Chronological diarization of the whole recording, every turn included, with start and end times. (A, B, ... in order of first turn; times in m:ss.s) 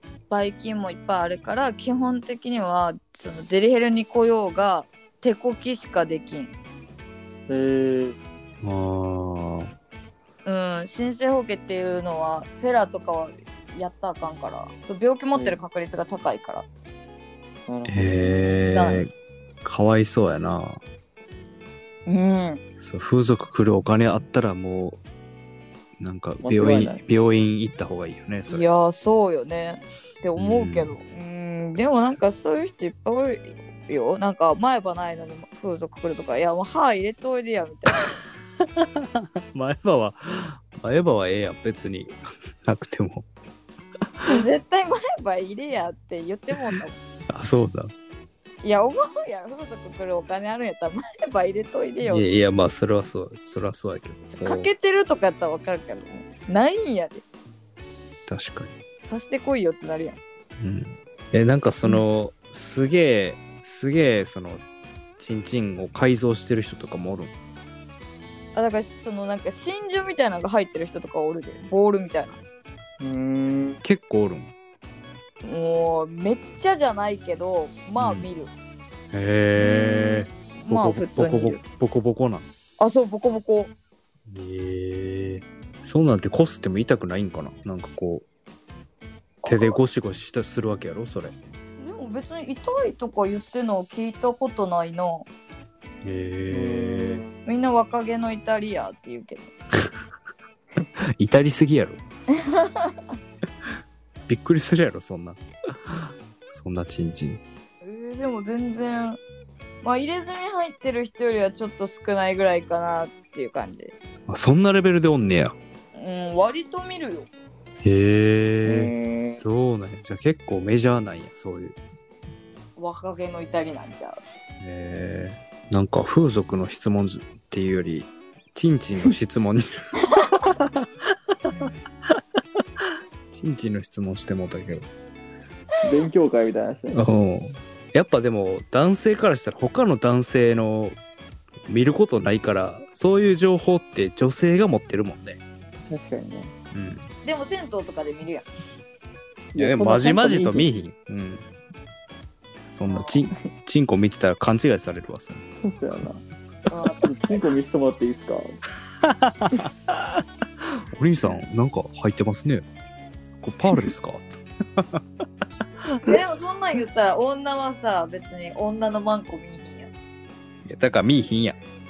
0:00.3-0:06.5 A
0:07.5-0:08.2 B
0:08.6-0:09.7 C
0:10.4-0:16.7 A
0:15.3-0:15.6 B
0:17.7-0:18.6 B
0:17.9-0:19.1 C
0:18.7-0:19.1 A
0:19.6-0:20.8 C
0:22.1-0:22.6 A
0:22.8-0:25.0 C
0:26.0-0:28.6 C
0:26.4-0:27.0 B
0:28.5-0:38.1 A
0:30.4-0:30.9 C
0:38.6-0:42.1 C
0:42.6-0:43.3 C
0:44.2-0:47.0 A
0:47.3-0:47.9 C
0:48.6-0:52.3 A
0:52.1-0:54.7 C
0:54.3-0:57.2 A
0:58.3-0:58.7 C
0:59.1-1:00.2 A
1:00.6-1:04.6 C
1:05.2-1:07.3 C
1:08.6-1:12.4 A
1:13.0-1:13.8 B
1:13.8-1:14.5 C
1:15.4-1:18.5 A
1:18.0-1:18.3 C
1:19.1-1:22.5 C
1:19.6-1:21.6 A
1:22.8-1:23.7 A
1:24.3-1:28.3 C
1:29.4-1:29.8 A
1:29.4-1:31.4 C
1:31.8-1:35.3 A
1:36.0-1:37.2 C
1:36.5-1:37.3 B
1:37.4-1:39.5 A
1:41.2-1:42.0 C
1:42.3-1:43.0 A
1:44.3-1:47.4 C
1:47.8-1:49.2 A
1:49.8-1:53.9 A
1:54.3-1:55.6 C
1:55.9-1:57.3 A
1:57.8-2:01.8 C
1:58.6-1:59.4 B
2:02.8-2:04.2 A
2:04.6-2:09.7 C
2:12.8-2:14.9 C
2:15.8-2:17.0 B
2:16.9-2:21.0 C
2:21.7-2:25.4 C
2:25.9-2:26.5 B
2:26.7-2:27.1 C
2:27.2-2:28.5 A
2:29.5-2:30.7 B
2:29.6-2:31.4 C
2:32.7-2:35.4 C
2:32.9-2:33.2 A
2:35.6-2:36.2 B
2:36.7-2:37.4 A
2:37.0-2:38.6 B
2:39.0-2:39.7 C
2:40.6-2:42.6 C
2:43.4-2:45.0 C
2:46.0-2:49.9 A
2:50.6-2:51.6 C